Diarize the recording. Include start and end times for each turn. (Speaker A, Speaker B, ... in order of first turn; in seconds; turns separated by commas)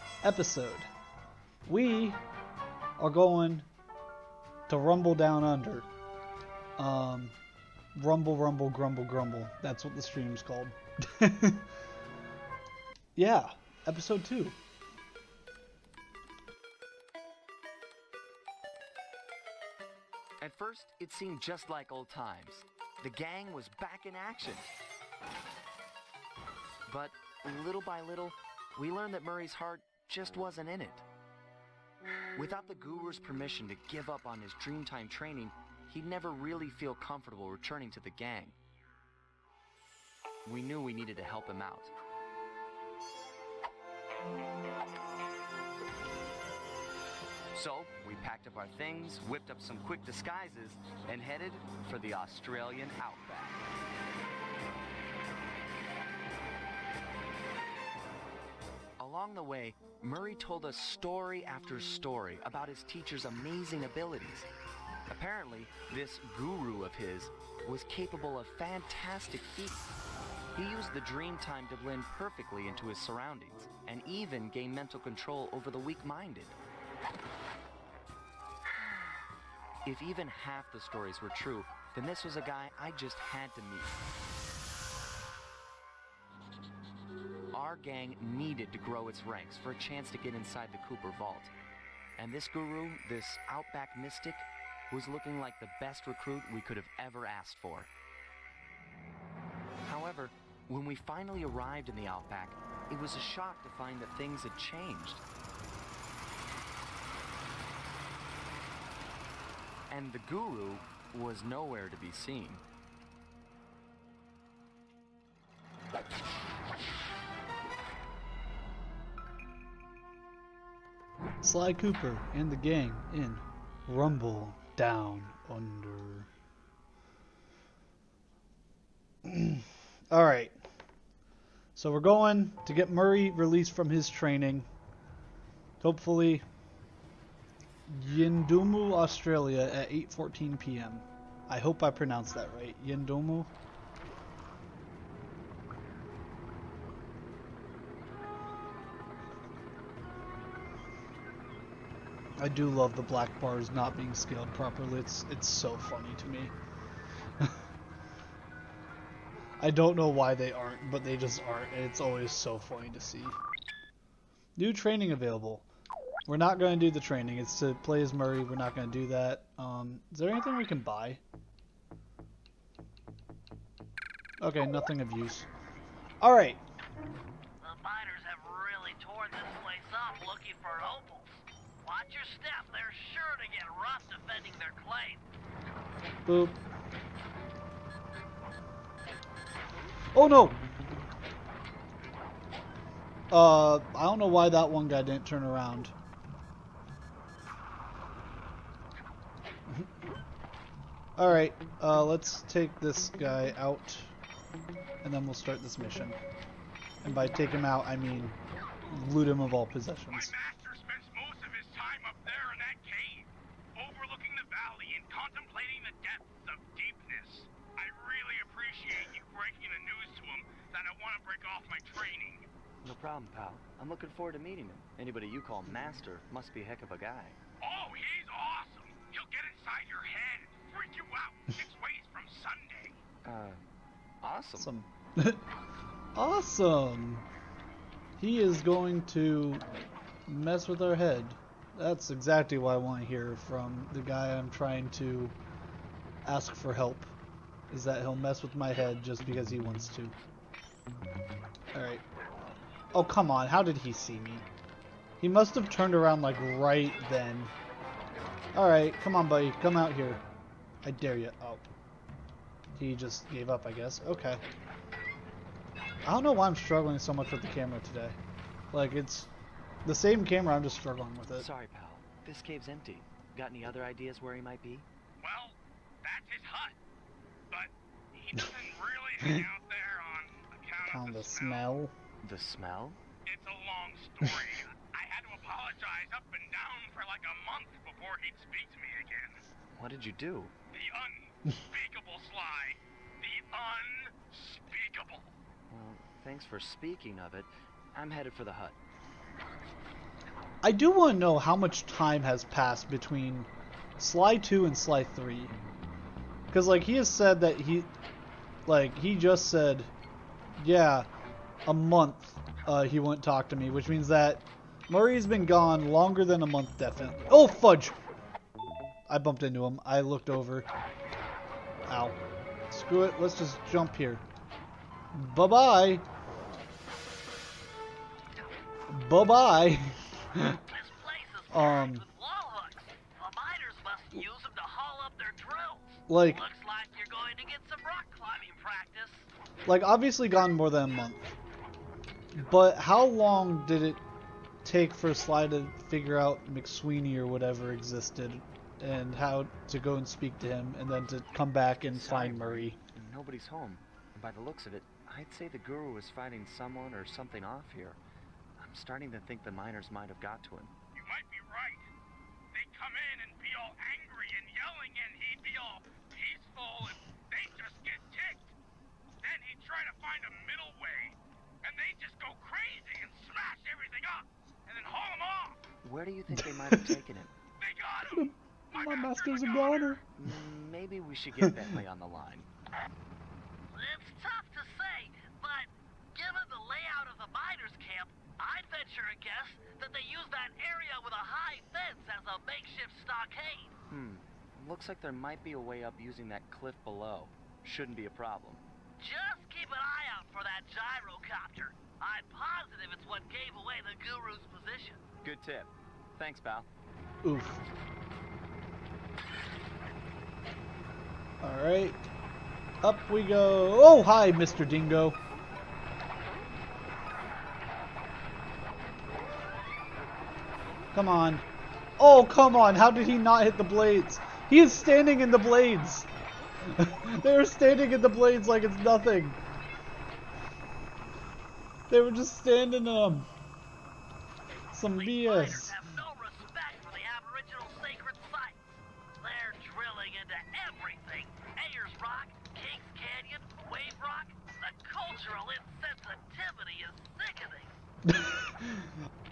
Speaker A: 0.2-0.9, Speaker A: 1.7-2.2, Speaker A: 3.0-3.7, Speaker A: 4.7-5.9, Speaker A: 6.8-7.3, Speaker A: 8.0-11.7, Speaker A: 13.2-14.6, Speaker B: 20.4-24.7, Speaker B: 26.9-31.1, Speaker B: 32.4-38.6, Speaker B: 40.5-41.9, Speaker B: 47.5-53.7, Speaker B: 59.0-64.5, Speaker B: 65.1-69.9, Speaker B: 70.5-76.6, Speaker B: 79.8-84.0, Speaker B: 87.5-91.5, Speaker B: 92.2-97.9, Speaker B: 99.9-105.2, Speaker B: 109.9-112.6, Speaker A: 121.4-126.3, Speaker A: 129.2-130.6, Speaker A: 131.8-134.7, Speaker A: 135.8-136.4, Speaker A: 137.9-143.5, Speaker A: 152.4-156.5, Speaker A: 159.6-163.4, Speaker A: 164.6-165.7, Speaker A: 166.3-171.2, Speaker A: 174.4-175.5, Speaker A: 176.2-176.6, Speaker C: 177.6-185.2, Speaker A: 186.3-186.6, Speaker A: 190.1-190.6, Speaker A: 193.3-195.9, Speaker A: 201.2-204.1, Speaker A: 205.0-206.2, Speaker A: 207.0-208.4, Speaker A: 208.9-210.3, Speaker D: 210.1-222.5, Speaker B: 222.8-227.4, Speaker D: 227.6-233.0, Speaker B: 233.2-233.7, Speaker B: 234.2-234.7, Speaker A: 234.6-235.4, Speaker A: 236.2-237.3, Speaker A: 238.2-239.7, Speaker A: 240.3-245.3, Speaker A: 246.2-247.1, Speaker A: 247.7-250.2, Speaker A: 251.7-252.0, Speaker A: 252.9-254.5, Speaker A: 255.2-257.5, Speaker A: 258.5-260.2, Speaker A: 260.8-261.7, Speaker A: 262.8-264.4, Speaker A: 266.1-268.2, Speaker A: 268.7-269.3, Speaker A: 269.9-271.5, Speaker B: 271.4-274.9, Speaker D: 275.2-276.8, Speaker D: 277.5-281.7, Speaker A: 280.9-281.9, Speaker B: 282.2-283.0, Speaker D: 283.2-289.4, Speaker B: 289.7-290.5, Speaker D: 290.7-295.3, Speaker B: 295.7-298.8, Speaker A: 300.6-305.6, Speaker A: 306.5-307.9, Speaker A: 308.7-309.9, Speaker A: 310.6-311.1, Speaker A: 311.6-318.0, Speaker A: 319.1-320.7, Speaker A: 321.9-324.2, Speaker A: 325.1-326.1, Speaker A: 328.9-330.6, Speaker C: 330.7-339.3, Speaker A: 331.5-332.1, Speaker A: 336.1-336.4, Speaker A: 339.7-341.4, Speaker A: 342.4-344.0, Speaker A: 344.6-352.8, Speaker B: 351.8-358.0, Speaker B: 358.6-360.7, Speaker D: 360.9-361.9, Speaker D: 362.5-368.5, Speaker D: 369.2-375.6, Speaker B: 375.8-377.3, Speaker A: 376.4-377.0, Speaker D: 377.6-380.0, Speaker A: 378.1-380.0, Speaker B: 380.2-382.5, Speaker C: 383.7-393.8, Speaker B: 393.9-398.6, Speaker C: 399.0-405.0, Speaker B: 405.2-406.7, Speaker A: 407.2-407.6, Speaker A: 411.4-412.0, Speaker A: 412.8-415.2, Speaker A: 420.9-421.4, Speaker A: 422.0-426.1, Speaker A: 426.7-429.4, Speaker A: 431.9-433.3, Speaker A: 434.7-435.8, Speaker C: 434.8-447.7, Speaker A: 448.1-448.9